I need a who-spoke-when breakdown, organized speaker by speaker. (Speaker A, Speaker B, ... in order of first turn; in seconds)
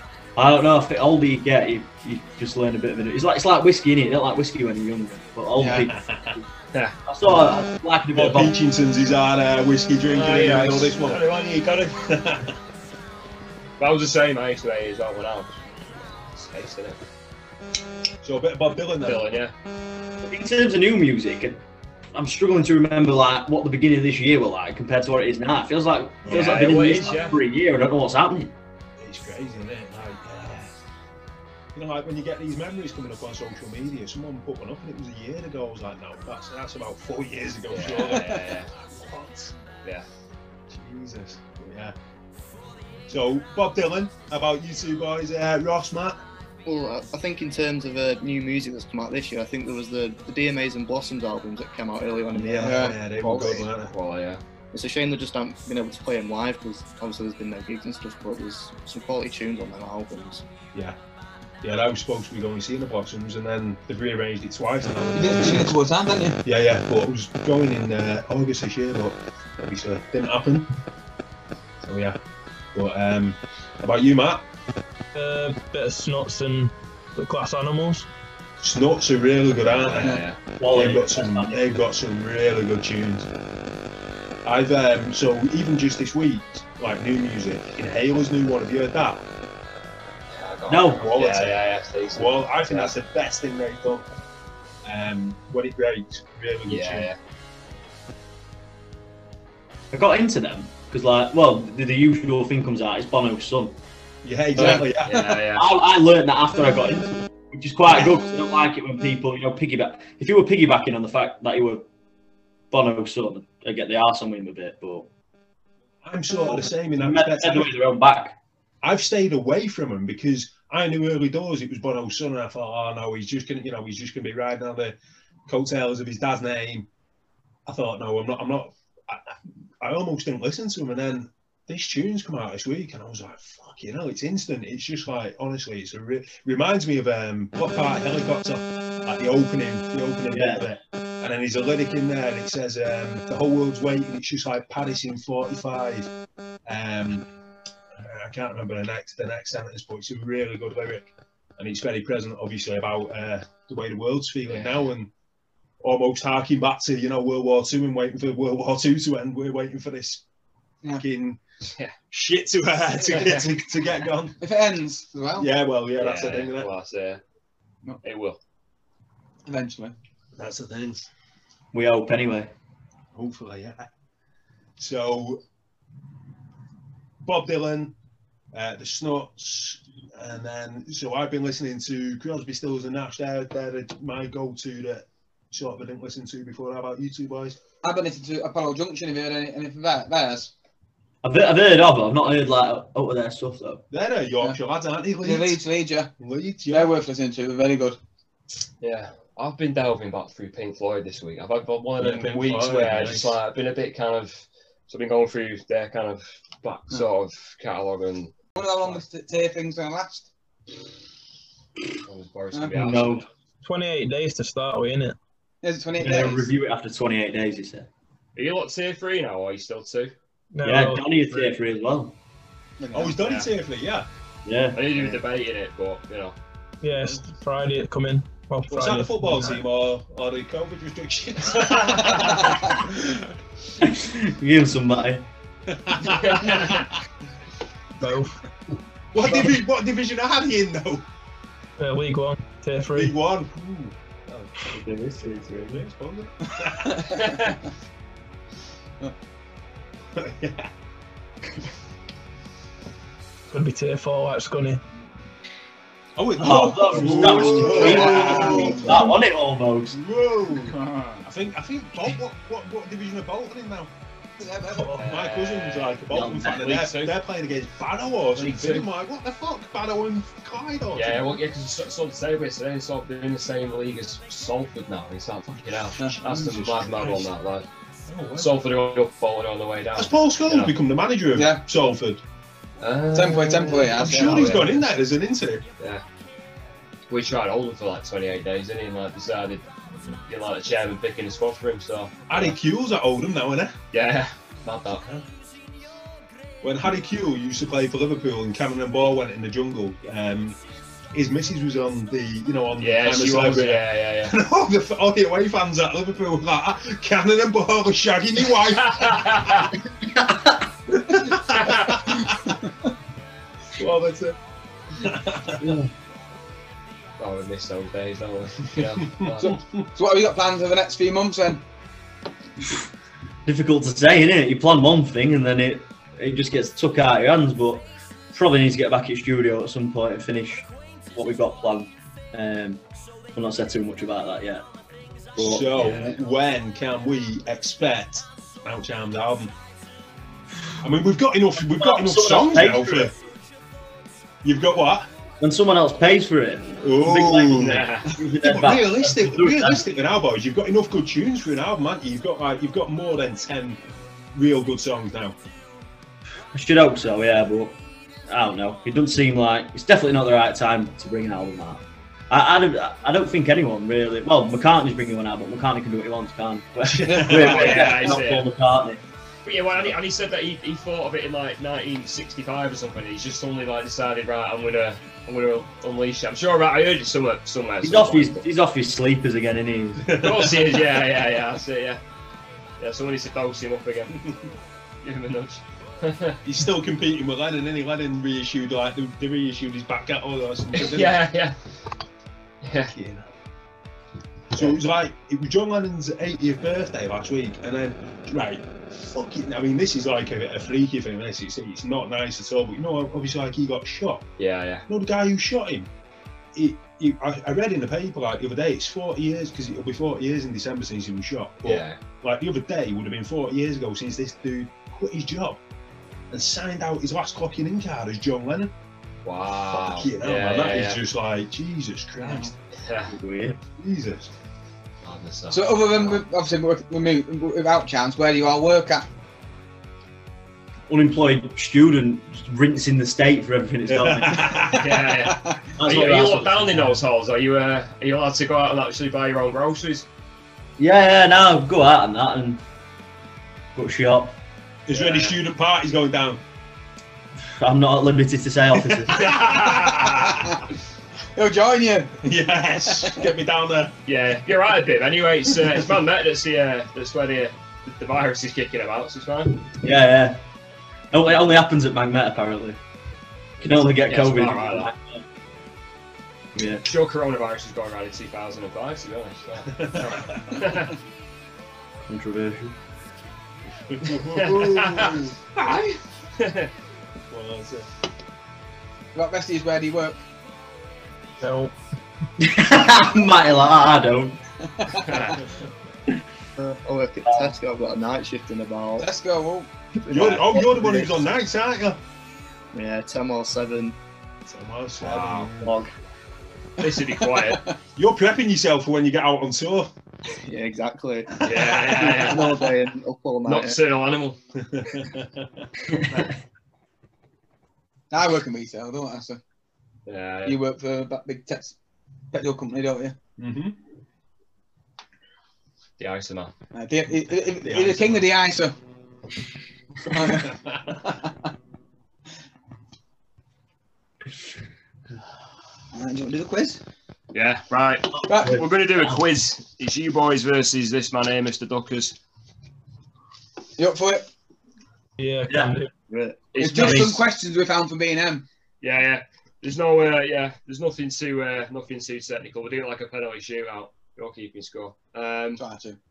Speaker A: 0.3-6.4, 7.0-8.6, 20.2-21.6, 22.1-28.5, 80.6-81.8, 90.7-91.1, 99.9-103.8, 105.5-111.8, 112.7-115.1, 116.5-118.3, 140.3-140.7, 171.7-172.5, 191.2-193.8, 212.7-213.2, 216.0-217.9, 220.6-222.1, 224.4-225.1, 233.8-235.2, 244.7-245.8, 256.4-260.0, 266.1-266.8, 315.6-315.9, 323.4-332.8, 333.3-334.6, 335.4-336.2, 341.6-343.1, 345.4-349.8, 356.5-357.8, 358.3-369.0, 377.8-380.1, 423.1-423.6, 430.9-434.7, 435.8-437.0, 440.8-442.6, 443.7-444.4, 447.6-449.3, 459.7-460.4, 461.1-462.8, 463.6-465.2, 466.5-466.8, 472.1-472.7, 482.4-484.4, 487.2-487.5, 528.1-529.1, 535.5-535.7, 536.6-537.2
Speaker B: 5.6-5.9, 52.6-53.0, 65.1-66.4, 104.5-104.9, 164.4-165.5, 169.4-169.9, 187.8-190.5, 195.2-196.1, 196.7-198.0, 208.6-210.3, 212.5-212.8, 215.6-216.5, 222.8-223.2, 246.9-247.4, 257.1-259.0, 264.4-265.0, 281.3-281.6, 283.1-284.7, 319.4-321.6, 367.0-368.0, 425.5-429.1, 435.2-435.7, 451.3-452.2, 453.0-453.3, 479.1-480.2, 484.8-485.2, 489.0-489.7, 496.8-497.8, 508.1-509.4, 510.4-511.7, 512.3-513.1, 516.7-518.7, 520.1-520.5, 525.9-526.8, 528.3-528.6, 533.8-534.3, 536.5-538.4, 545.6-546.0
Speaker C: 5.8-6.4, 8.1-11.2, 12.0-12.6, 18.2-19.3, 26.2-26.7, 29.0-30.7, 31.7-39.5, 40.7-41.9, 43.1-46.2, 52.3-53.9, 61.6-65.8, 66.4-70.7, 71.8-72.2, 72.7-74.4, 78.6-83.3, 84.4-89.2, 91.0-94.0, 94.8-97.1, 104.2-105.2, 116.0-117.7, 118.8-125.0, 125.5-126.9, 127.7-146.1, 146.7-147.3, 148.0-155.1, 155.8-160.2, 160.9-161.4, 162.1-164.4, 165.4-166.7, 170.3-171.1, 173.1-173.9, 174.8-175.4, 177.2-177.9, 178.5-187.6, 193.9-195.6, 196.2-196.9, 202.0-203.4, 222.9-224.1, 228.7-233.2, 235.7-236.9, 239.1-241.0, 242.9-247.4, 250.2-250.7, 256.1-259.2, 259.9-263.9, 264.8-271.4, 276.0-277.3, 278.1-278.6, 279.9-282.2, 283.9-285.6, 292.3-293.7, 295.0-295.2, 296.6-300.6, 301.1-309.6, 310.9-312.5, 313.7-314.4, 314.9-315.7, 318.8-319.7, 335.4-339.5, 340.8-343.1, 344.4-345.1, 346.8-353.8, 354.3-355.4, 366.8-368.1, 380.0-380.8, 386.4-391.2, 392.9-393.3, 394.5-404.3, 404.9-405.9, 406.5-415.6, 416.3-418.7, 419.7-422.5, 423.7-424.3, 433.9-435.1, 444.9-446.4, 448.9-450.6, 452.2-453.9, 469.7-470.7, 473.9-475.9, 477.3-477.9, 485.3-485.7, 490.1-492.0, 494.4-495.8, 497.9-499.9, 501.4-502.5, 504.6-505.7, 513.4-513.8, 517.6-518.3, 520.2-521.0
Speaker D: 10.1-12.0, 13.8-15.5, 16.3-17.0, 19.0-19.5, 26.3-27.4, 37.7-38.7, 53.8-54.4, 79.7-80.4, 90.3-92.9, 96.7-97.2, 104.6-105.7, 154.4-154.9, 161.6-161.9, 163.1-163.5, 166.0-167.2, 168.0-168.4, 198.8-209.0, 212.0-213.3, 218.3-220.1, 223.1-223.5, 224.7-226.3, 236.0-236.8, 247.2-247.5, 257.7-258.5, 264.9-267.2, 268.3-268.9, 270.9-277.7, 278.4-280.8, 282.8-284.8, 287.1-289.6, 290.2-292.6, 293.9-295.0, 302.8-304.4, 308.7-309.8, 311.5-312.0, 317.2-319.5, 347.5-348.1, 367.3-368.5, 369.4-378.4, 380.2-382.0, 382.8-384.2, 385.0-386.4, 390.7-391.6, 392.6-392.9, 404.4-404.9, 411.6-412.0, 419.2-421.0, 422.7-423.1, 425.0-426.2, 434.8-440.1, 444.9-445.4, 449.2-450.0, 454.1-459.6, 463.6-464.9, 466.8-470.9, 474.3-475.2, 476.4-476.7, 484.9-485.4, 495.0-495.5, 496.8-497.6, 501.4-502.7, 503.4-504.4, 510.1-510.6, 516.0-516.5, 527.3-532.1, 536.5-537.2, 538.8-545.6
Speaker E: 46.6-53.6, 54.7-60.4, 486.6-489.1, 490.1-491.2, 492.7-493.9, 500.4-503.8, 536.1-536.4
Speaker F: 75.1-78.1, 213.6-215.2, 220.5-221.1, 226.8-229.6, 238.0-238.3, 241.8-243.1, 253.5-254.8, 481.4-481.7, 535.2-535.9